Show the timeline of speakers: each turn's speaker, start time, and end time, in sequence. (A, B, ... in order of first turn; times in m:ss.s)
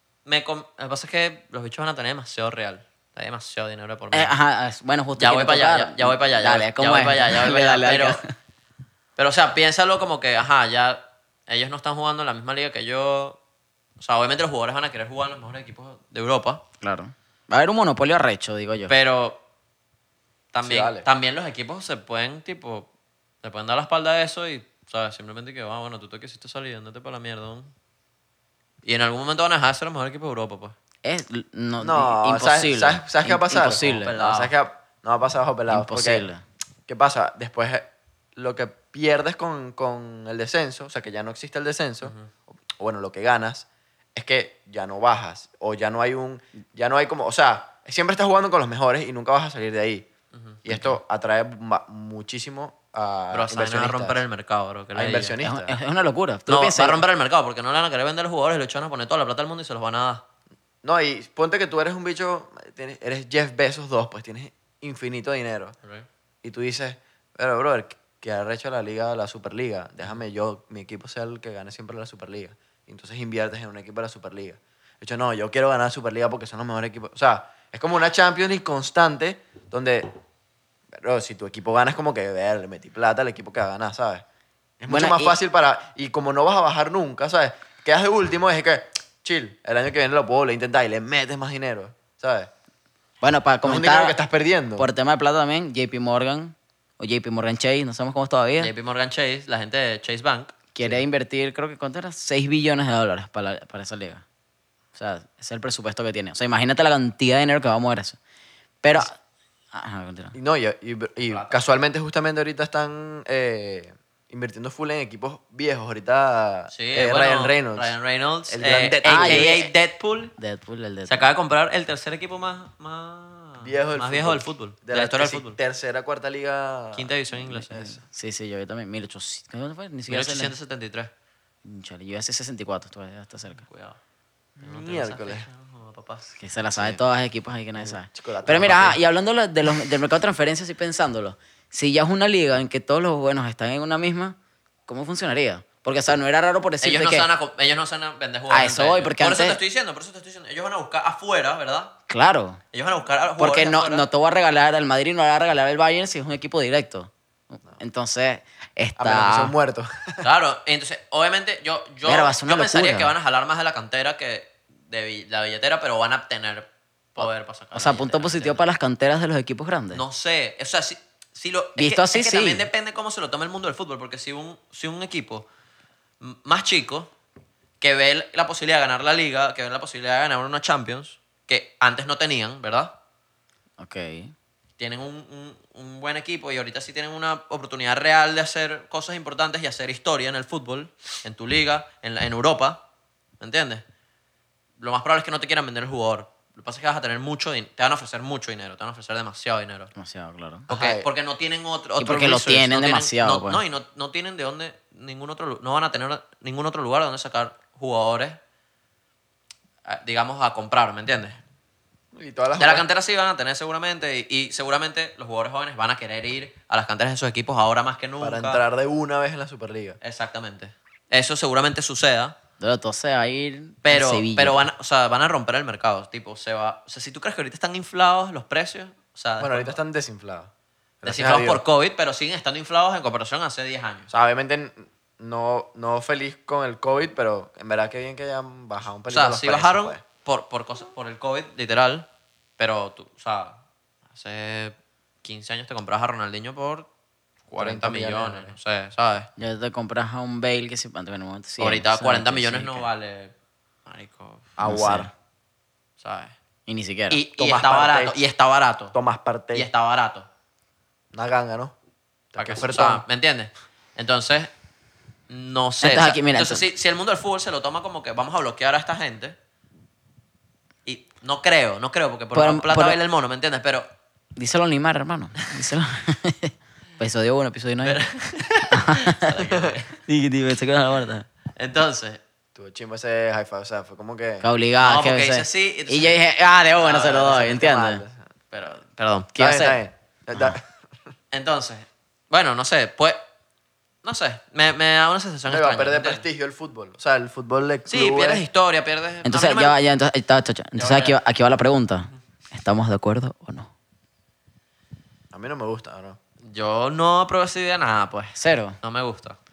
0:00.2-0:04.3 A
0:04.1-0:08.3 B
0:05.2-0:08.2 A
0:09.2-0:13.4 A
0:14.0-0:16.6 A
0:16.8-0:18.9 B
0:18.9-0:19.4 A
0:20.5-0:22.9 A
0:20.6-0:21.1 C
0:23.4-0:27.7 A
0:28.8-0:30.8 A
0:31.0-0:34.1 B
0:31.8-0:36.3 C
0:33.8-0:34.5 A
0:35.7-0:36.4 B
0:36.9-0:42.2 C
0:42.0-0:42.3 A
0:42.7-0:50.1 C
0:50.3-0:50.6 A
0:50.6-0:54.2 C
0:50.7-0:51.0 B
0:53.3-0:55.4 A
0:54.9-0:55.8 C
0:55.4-0:57.0 B
0:56.5-1:00.2 A
1:00.8-1:05.8 C
1:06.4-1:20.1 C
1:20.9-1:24.2 C
1:24.8-1:32.5 C
1:24.9-1:25.4 B
1:33.2-1:34.2 B
1:33.6-1:34.9 C
1:34.8-1:38.7 B
1:38.6-1:40.5 A
1:40.7-1:44.2 B
1:45.0-1:48.2 B
1:48.8-1:49.2 B
1:49.7-1:50.4 B
1:50.3-1:58.0 C
1:51.3-1:51.5 A
1:56.7-2:00.3 A
1:58.5-1:59.5 C
1:59.1-1:59.7 B
2:00.4-2:01.3 B
2:01.1-2:05.6 A
2:03.6-2:07.2 C
2:07.0-2:08.0 A
2:07.7-2:10.5 B
2:10.1-2:11.1 A
2:11.6-2:13.6 B
2:13.7-2:14.0 A
2:14.6-2:15.5 C
2:14.6-2:16.3 A
2:16.4-2:24.4 B
2:16.8-2:17.0 C
2:17.8-2:19.0 C
2:24.9-2:27.3 B
2:26.8-2:32.0 A
2:28.5-2:29.6 B
2:32.1-2:32.6 B
2:32.7-2:34.1 A
2:33.4-2:39.5 B
2:39.0-2:40.3 C
2:40.2-2:48.6 A
2:42.0-2:43.1 B
2:47.2-2:50.0 B
2:49.9-2:55.5 A
2:51.8-2:52.7 B
2:56.2-2:57.1 A
2:57.8-3:02.9 A
3:03.8-3:04.3 B
3:04.8-3:12.8 A
3:13.4-3:13.8 A
3:14.8-3:19.9 A
3:20.0-3:20.7 B
3:20.7-3:21.1 C
3:20.7-3:28.4 A
3:22.0-3:23.6 B
3:29.8-3:31.4 A
3:32.1-3:32.9 C
3:32.6-3:38.6 A
3:38.2-3:40.0 C
3:40.0-3:42.4 A
3:42.6-3:44.7 B
3:43.8-3:49.8 A
3:49.4-3:50.5 C
3:51.0-3:51.6 C
3:51.0-3:54.1 A
3:54.1-4:00.0 C
3:59.1-4:02.1 A
4:02.6-4:03.6 A
4:04.1-4:06.9 A
4:07.5-4:09.3 A
4:07.6-4:08.6 C
4:09.4-4:12.9 B
4:11.6-4:13.3 A
4:13.9-4:14.5 A
4:14.6-4:15.1 C
4:14.6-4:15.1 B
4:16.0-4:16.4 A
4:16.7-4:17.2 B
4:17.1-4:19.0 A
4:17.4-4:18.2 C
4:18.9-4:19.7 C
4:19.5-4:20.3 A
4:21.1-4:21.8 C
4:22.3-4:23.0 C
4:22.4-4:24.5 A
4:25.3-4:29.4 A
4:25.8-4:26.6 B
4:30.9-4:33.9 A
4:32.3-4:33.0 B
4:34.4-4:38.0 B
4:37.8-4:40.0 A
4:38.7-4:39.3 B
4:39.4-4:39.7 C
4:40.1-4:41.3 B
4:41.5-4:42.2 A
4:42.6-4:44.5 C
4:44.4-4:48.0 B
4:44.8-4:46.2 A
4:46.8-4:47.6 A
4:47.0-4:48.2 C
4:48.5-4:49.3 A
4:49.4-4:49.8 B
4:49.4-4:50.8 C
4:51.3-4:53.2 A
4:54.0-4:56.2 A
4:55.5-4:58.4 C
4:57.9-4:59.8 A
4:59.2-5:03.7 B
5:00.8-5:01.2 A
5:05.3-5:06.2 C
5:06.4-5:09.4 A
5:08.4-5:08.8 B